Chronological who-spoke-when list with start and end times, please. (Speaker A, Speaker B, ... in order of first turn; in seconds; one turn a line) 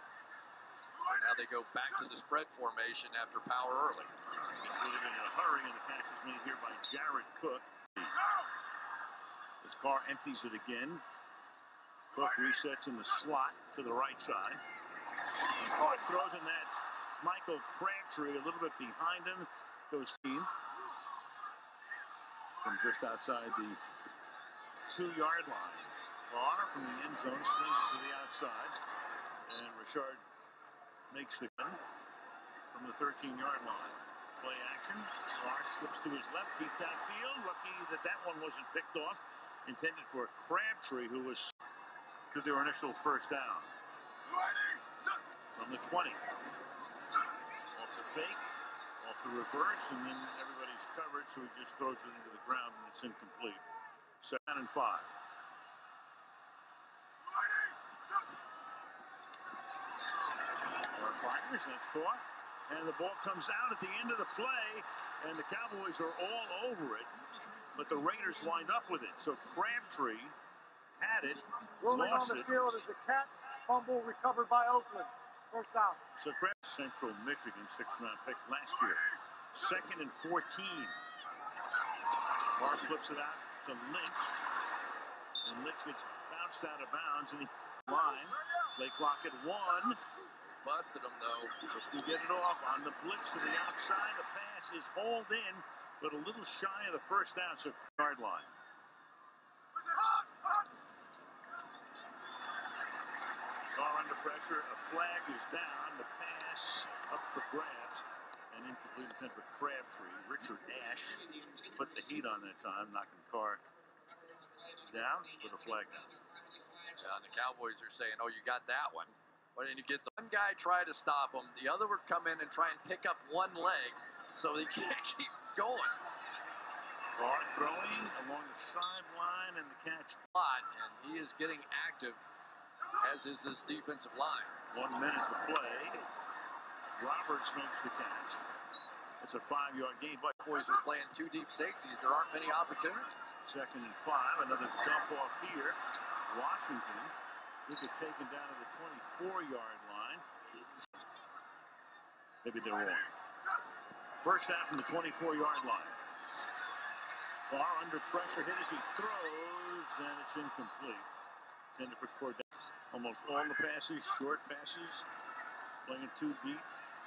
Speaker A: 1.0-4.1
Speaker B: 4.5-8.2
Speaker B: 9.6-11.0
Speaker B: 12.1-14.6
Speaker B: 15.4-20.5
Speaker B: 22.6-23.8
Speaker B: 24.9-28.8
Speaker B: 29.5-30.2
Speaker B: 31.1-31.8
Speaker B: 32.7-41.5
Speaker B: 42.3-43.7
Speaker B: 44.5-46.2
Speaker B: 47.7-48.4
Speaker B: 49.0-53.6
Speaker B: 54.2-55.1
Speaker B: 60.8-67.1
Speaker B: 67.7-70.3
Speaker B: 71.0-72.6
Speaker C: 71.9-76.0
Speaker B: 76.2-81.0
Speaker B: 82.4-84.5
Speaker B: 85.4-90.0
Speaker A: 90.6-91.6
Speaker B: 91.6-98.5
Speaker B: 103.7-113.6
Speaker B: 114.8-116.1
Speaker A: 116.9-126.0
Speaker B: 127.2-130.2
Speaker A: 130.3-132.3
Speaker A: 132.9-134.5
Speaker B: 134.7-136.1
Speaker B: 137.0-138.5
Speaker B: 139.2-140.5
Speaker A: 140.4-143.3
Speaker B: 143.4-147.1
Speaker B: 147.7-150.2
Speaker B: 152.4-153.1
Speaker B: 154.2-156.0
Speaker B: 157.5-161.1
Speaker B: 161.7-165.1
Speaker B: 165.8-166.7